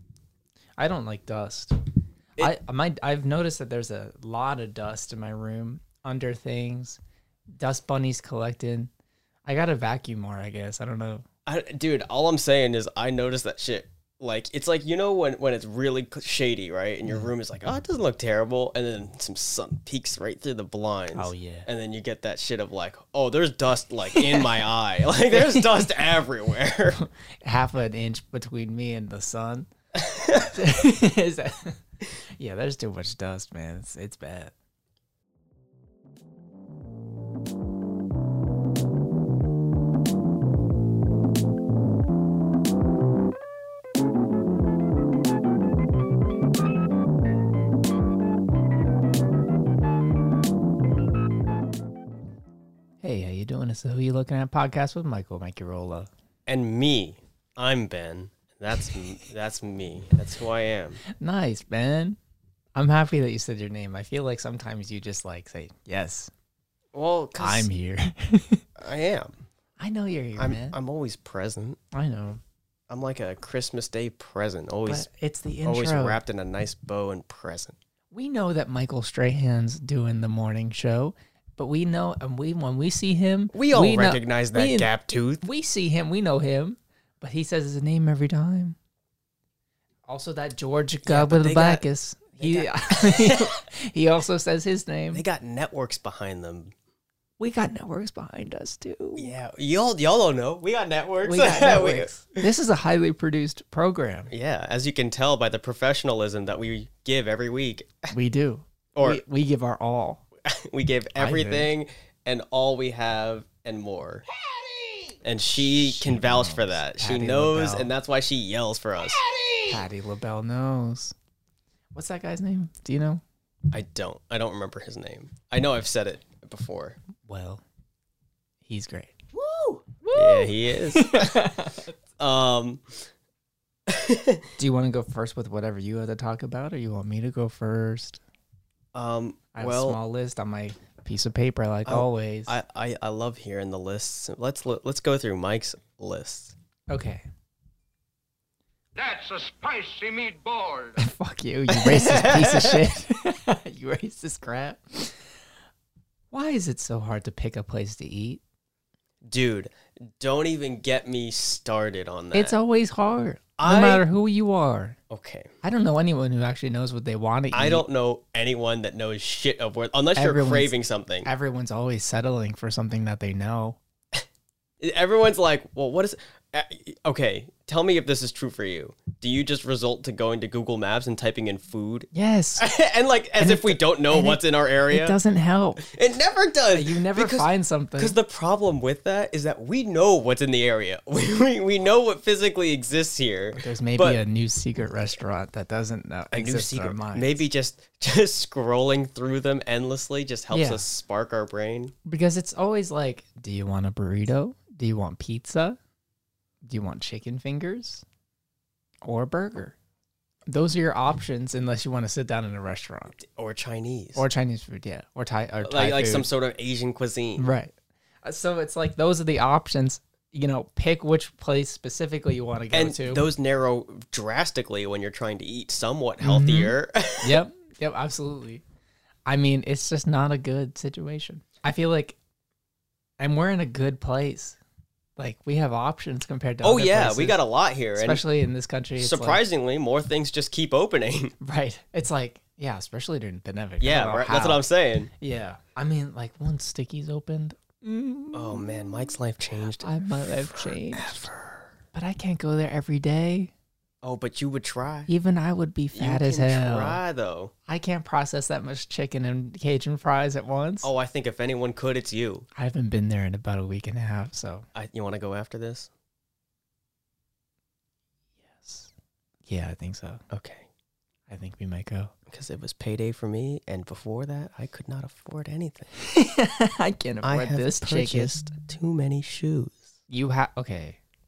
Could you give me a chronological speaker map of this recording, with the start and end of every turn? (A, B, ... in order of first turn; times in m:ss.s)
0:00.8-0:01.8 A
0:02.4-0:07.0 A
0:07.6-0:08.9 A
0:09.5-0:11.2 A
0:11.5-0:27.0 B
0:21.1-0:21.7 A
0:24.2-0:24.5 A
0:25.3-0:25.8 A
0:27.0-0:29.7 A
0:30.0-0:30.6 B
0:30.5-0:31.8 A
0:32.4-0:34.5 A
0:53.0-0:56.1 A
0:56.5-1:01.0 B
1:01.1-1:02.2 A
1:02.8-1:06.3 A
1:06.9-1:07.7 B
1:07.4-1:08.6 A
1:08.8-1:09.4 B
1:09.8-1:10.8 A
1:10.4-1:11.8 B
1:11.9-1:12.4 A
1:12.9-1:15.1 B
1:14.9-1:16.2 A
1:15.6-1:17.8 B
1:18.1-1:24.9 A
1:23.5-1:25.4 B
1:25.4-1:28.8 A
1:30.1-1:35.2 A
1:31.0-1:31.8 B
1:32.4-1:33.5 B
1:35.1-1:36.7 B
1:37.4-1:39.3 A
1:39.2-1:42.5 B
1:41.2-1:44.3 A
1:44.3-1:48.1 B
1:48.1-1:50.2 A
1:49.0-1:49.2 B
1:50.5-1:54.2 B
1:51.2-1:51.7 A
1:55.2-1:59.2 B
1:55.6-1:57.9 A
1:59.2-1:59.7 C
1:59.7-2:01.1 A
2:02.0-2:03.2 A
2:03.7-2:07.0 B
2:07.2-2:07.6 A
2:08.7-2:09.2 A
2:09.4-2:09.8 C
2:10.0-2:11.9 A
2:10.1-2:11.5 B
2:12.2-2:13.0 B
2:13.9-2:14.5 B
2:14.6-2:18.2 A
2:18.9-2:20.0 B
2:19.6-2:22.6 A
2:21.9-2:26.6 B
2:26.9-2:27.2 A
2:29.0-2:31.0 C
2:31.0-2:35.2 A
2:31.7-2:32.8 B
2:36.3-2:38.4 A
2:39.2-2:42.6 B
2:42.3-2:45.0 A
2:43.6-2:44.0 B
2:45.1-2:45.5 B
2:45.6-2:47.8 A
2:47.5-2:51.3 B
2:50.2-2:53.8 A
2:54.8-3:05.2 B
3:02.1-3:02.7 A
3:03.4-3:05.8 A
3:05.8-3:14.2 B
3:06.7-3:08.2 A
3:13.5-3:17.4 A
3:16.3-3:21.9 B
3:20.5-3:20.8 A
3:22.0-3:25.8 A
3:26.6-3:28.0 A
3:29.0-3:29.8 A
3:30.5-3:33.2 A
3:33.2-3:34.2 B
3:34.2-3:36.3 A
3:35.6-3:37.5 B
3:37.4-3:37.7 A
3:38.2-3:43.2 A
3:42.7-3:47.4 B
3:46.2-3:48.6 A
3:49.3-3:52.2 A
3:53.2-3:54.6 A
3:55.2-3:57.4 A
3:56.6-3:58.2 B
3:58.0-3:59.4 A
3:59.0-4:01.4 B
4:01.4-4:04.6 A
4:03.8-4:05.1 B
4:05.2-4:09.1 A
4:08.3-4:11.7 B
4:09.8-4:11.2 A
4:11.9-4:13.5 A
4:14.0-4:15.1 B
4:15.1-4:17.0 A
4:16.0-4:17.5 B
4:17.7-4:20.9 A
4:20.8-4:22.5 B
4:22.6-4:24.6 A
4:24.8-4:25.9 B
4:28.5-4:28.9 A
4:29.5-4:30.2 A
4:30.3-4:30.7 B
4:31.3-4:32.1 A
4:32.3-4:35.9 B
4:36.0-4:38.3 A
4:37.2-4:39.9 B
4:40.1-4:41.0 A